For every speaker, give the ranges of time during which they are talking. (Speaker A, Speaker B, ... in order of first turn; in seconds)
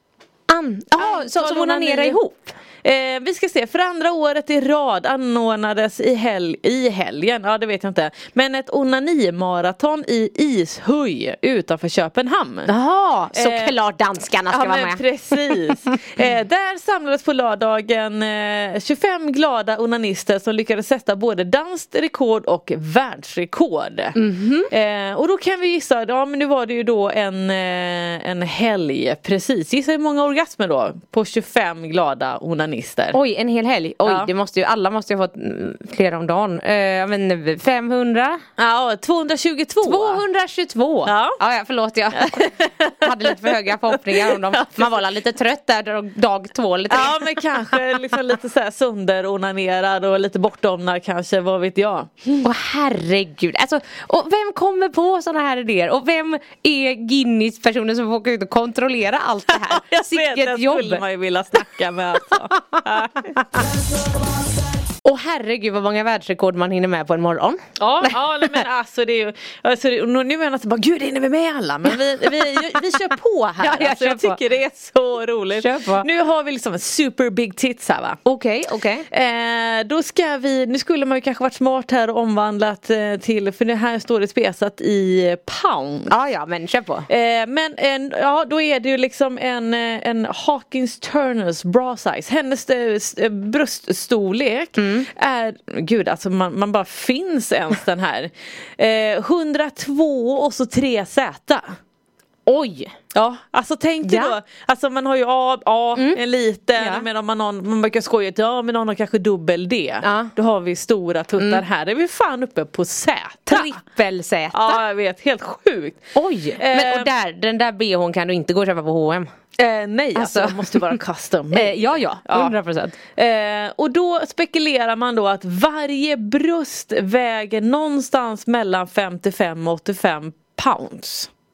Speaker A: 0.5-2.5, 12.7-15.9, 24.1-24.7, 33.1-38.4, 39.8-47.3, 52.4-61.0, 65.0-68.6, 73.6-74.4, 75.5-76.1, 78.2-79.1, 86.1-87.1, 94.8-95.1, 102.5-102.9, 104.0-104.3, 106.8-107.1, 110.0-110.3, 113.5-114.8, 116.1-119.3, 120.1-121.0, 121.5-123.0
Speaker B: 0.9-2.2, 2.8-12.7, 13.3-13.8, 14.5-24.2, 24.7-33.2, 34.0-34.3, 38.6-40.2, 41.0-41.4, 42.1-45.0, 46.9-52.5, 59.5-63.4, 67.8-78.2, 79.1-86.1, 87.1-101.7, 103.1-113.8, 114.5-116.0, 116.5-117.1, 119.6-122.5, 123.2-131.3